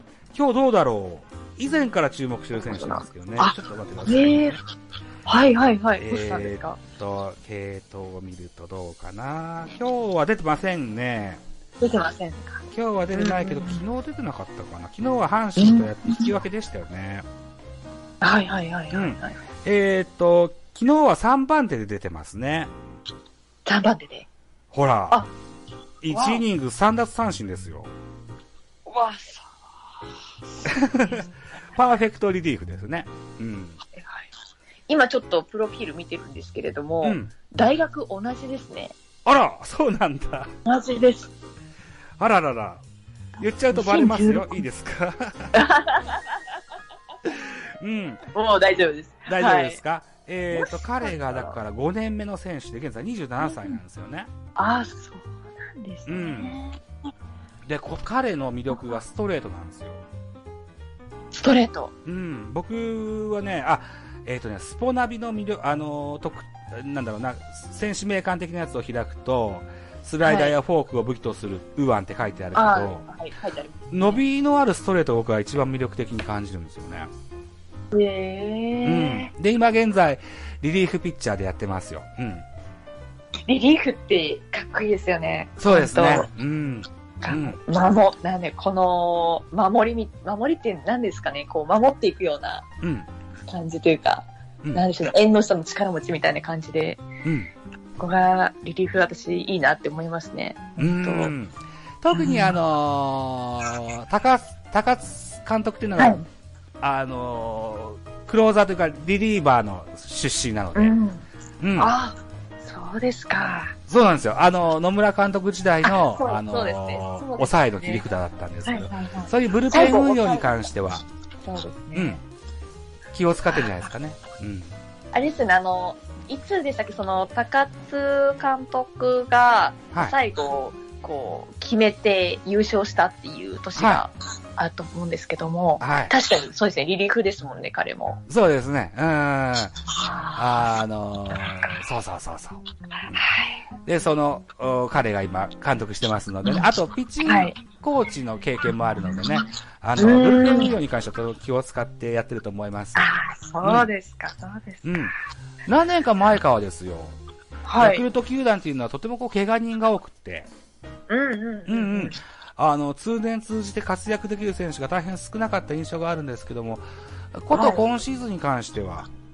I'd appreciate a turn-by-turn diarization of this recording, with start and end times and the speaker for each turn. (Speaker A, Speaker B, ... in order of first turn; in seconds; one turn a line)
Speaker A: 0.3-4.6
Speaker B: 2.5-4.6
Speaker B: 5.2-6.8
Speaker A: 6.0-11.4
Speaker B: 11.8-12.6
Speaker A: 12.7-17.2
Speaker B: 13.1-13.8
Speaker B: 15.6-16.3
Speaker B: 18.2-19.4
Speaker A: 18.9-22.7
Speaker B: 23.6-24.3
Speaker A: 24.7-25.2
Speaker A: 26.0-27.9
Speaker B: 26.1-26.4
Speaker B: 28.9-29.5
Speaker B: 30.6-31.3
Speaker A: 30.6-33.8
Speaker B: 33.9-34.3
Speaker B: 34.9-38.9
Speaker A: 37.0-37.3
Speaker A: 39.2-40.5
Speaker B: 40.6-41.3
Speaker A: 42.2-42.8
Speaker A: 43.4-45.6
Speaker B: 43.7-44.6
Speaker B: 45.5-46.4
Speaker A: 47.2-48.2
Speaker B: 48.3-49.8
Speaker A: 49.3-54.3
Speaker B: 50.5-51.6
Speaker B: 53.4-53.7
Speaker B: 54.6-56.8
Speaker A: 56.0-56.6
Speaker A: 57.6-60.0
Speaker B: 58.7-59.0
Speaker B: 61.3-61.9
Speaker A: 62.0-73.0
Speaker B: 70.2-70.5
Speaker B: 72.5-74.2
Speaker A: 73.9-77.1
Speaker B: 77.9-79.3
Speaker A: 78.8-82.4
Speaker B: 83.5-86.3
Speaker A: 85.6-87.6
Speaker B: 87.2-92.7
Speaker A: 92.8-93.1
Speaker B: 93.5-97.0
Speaker A: 97.2-97.5
Speaker B: 98.0-101.3
Speaker A: 100.8-106.2
Speaker B: 102.1-102.6
Speaker B: 106.0-106.2
Speaker A: 106.8-111.0
Speaker B: 110.7-111.2
Speaker A: 111.6-111.9
Speaker B: 111.8-113.7
Speaker A: 113.9-121.0
Speaker B: 115.8-118.0
Speaker B: 118.7-120.5
Speaker B: 121.4-122.2
Speaker A: 121.9-122.2
Speaker A: 123.1-124.7
Speaker B: 125.1-138.2
Speaker A: 133.8-134.0
Speaker A: 135.8-136.1
Speaker A: 138.3-139.8
Speaker B: 139.9-140.7
Speaker A: 140.3-143.2
Speaker B: 143.0-143.6
Speaker A: 143.8-153.9
Speaker B: 147.2-147.6
Speaker B: 150.0-150.8
Speaker B: 152.9-155.1
Speaker A: 154.8-155.1
Speaker A: 155.7-157.1
Speaker B: 157.6-158.1
Speaker A: 157.8-160.5
Speaker B: 161.1-162.2
Speaker A: 161.7-169.1
Speaker B: 167.5-167.8